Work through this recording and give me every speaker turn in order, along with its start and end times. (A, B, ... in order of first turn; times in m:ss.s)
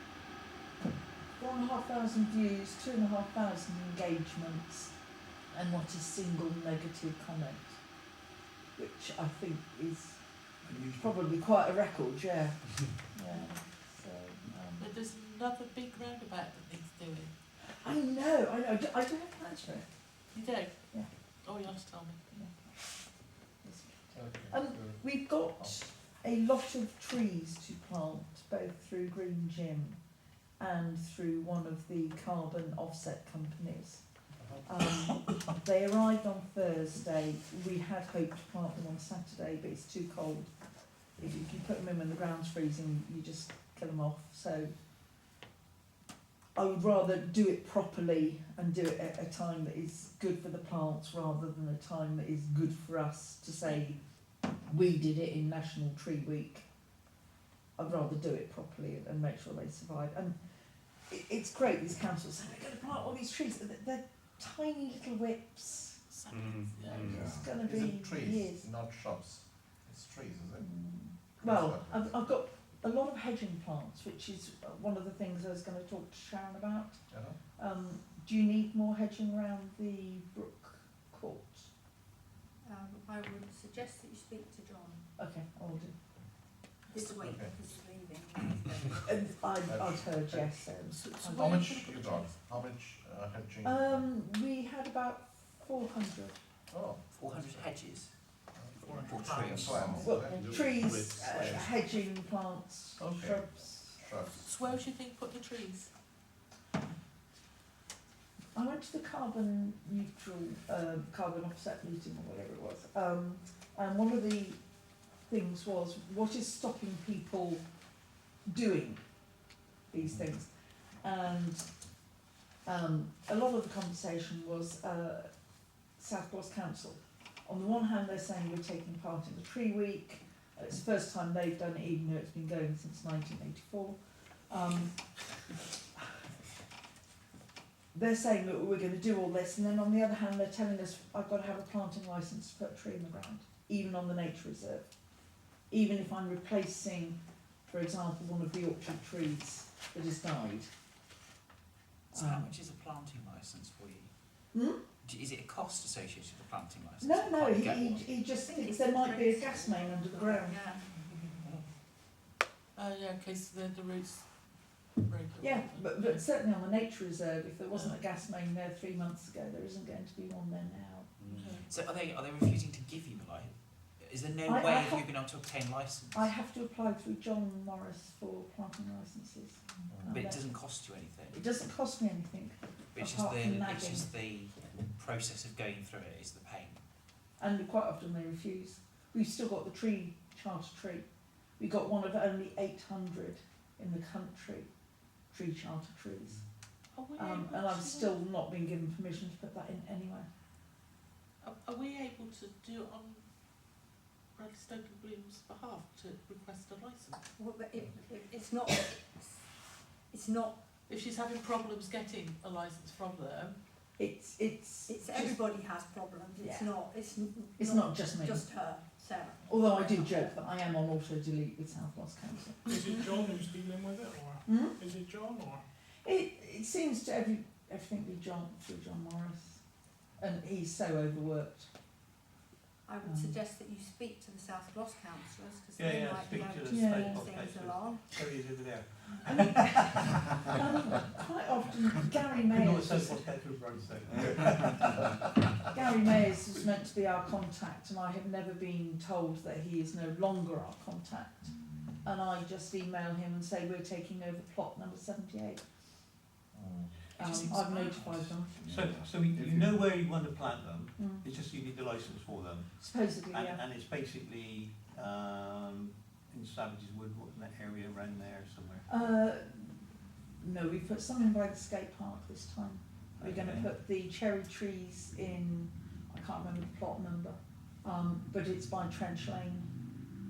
0:01.4-0:04.9 A
0:05.5-0:07.8 A
0:08.8-0:10.2 A
0:10.6-0:11.2 B
0:11.0-0:14.9 A
0:13.3-0:13.6 C
0:14.8-0:17.3 C
0:17.7-0:19.9 A
0:20.3-0:22.2 C
0:23.6-0:30.0 A
0:24.1-0:25.8 D
0:30.6-0:34.0 A
0:34.4-0:34.7 D
0:34.7-0:40.5 A
0:41.2-0:44.7 A
0:46.6-0:54.0 A
0:54.6-0:56.6 A
0:57.8-1:00.4 A
1:01.1-1:06.0 A
1:06.1-1:07.3 C
1:06.9-1:08.7 A
1:07.0-1:10.7 D
1:10.6-1:17.0 A
1:11.4-1:12.2 D
1:17.1-1:17.4 D
1:17.6-1:21.7 A
1:22.6-1:25.0 E
1:25.2-1:25.9 A
1:26.9-1:29.0 E
1:27.2-1:27.6 D
1:29.0-1:31.6 A
1:29.7-1:30.6 D
1:30.9-1:32.6 C
1:31.3-1:34.1 D
1:33.6-1:36.4 A
1:36.7-1:37.0 D
1:37.1-1:38.1 F
1:38.5-1:40.6 D
1:38.8-1:40.3 F
1:39.1-1:40.0 G
1:39.9-1:44.0 A
1:40.4-1:41.4 B
1:43.0-1:44.5 D
1:44.3-1:45.9 C
1:48.6-1:54.6 A
1:55.3-1:57.6 A
1:58.5-1:59.0 A
1:59.9-2:00.5 A
2:01.0-2:01.7 A
2:02.6-2:05.3 A
2:06.0-2:14.0 A
2:14.5-2:14.9 A
2:17.9-2:24.9 A
2:25.7-2:30.7 A
2:32.1-2:34.1 F
2:32.1-2:32.5 A
2:34.5-2:34.8 A
2:35.0-2:38.2 F
2:37.0-2:40.6 A
2:38.3-2:40.9 E
2:42.8-2:46.2 C
2:45.4-2:51.1 A
2:51.3-2:51.6 C
2:51.6-2:56.4 F
2:54.5-2:55.1 A
2:56.1-3:04.1 A
2:59.9-3:00.2 D
3:00.1-3:01.5 F
3:03.0-3:06.8 F
3:07.4-3:11.1 A
3:11.6-3:14.7 A
3:15.3-3:16.4 A
3:16.9-3:18.2 C
3:17.2-3:20.3 A
3:21.4-3:23.2 C
3:24.3-3:27.3 C
3:27.4-3:29.4 E
3:30.1-3:30.6 E
3:30.9-3:33.6 C
3:34.0-3:35.4 A
3:34.9-3:40.4 E
3:36.4-3:36.8 A
3:37.6-3:38.5 A
3:39.5-3:42.7 A
3:42.7-3:45.6 G
3:44.5-3:44.8 A
3:46.0-3:49.6 A
3:50.2-3:51.7 A
3:52.8-3:58.4 E
3:53.0-3:53.4 A
3:55.8-4:00.4 B
3:56.7-3:57.2 A
3:59.3-4:03.2 A
4:02.5-4:05.1 B
4:05.7-4:11.5 A
4:12.0-4:15.6 A
4:16.5-4:16.9 D
4:17.2-4:18.7 A
4:17.2-4:18.2 C
4:18.6-4:28.9 B
4:21.0-4:21.3 A
4:22.8-4:23.6 A
4:28.9-4:29.8 A
4:30.4-4:39.7 A
4:33.2-4:33.7 B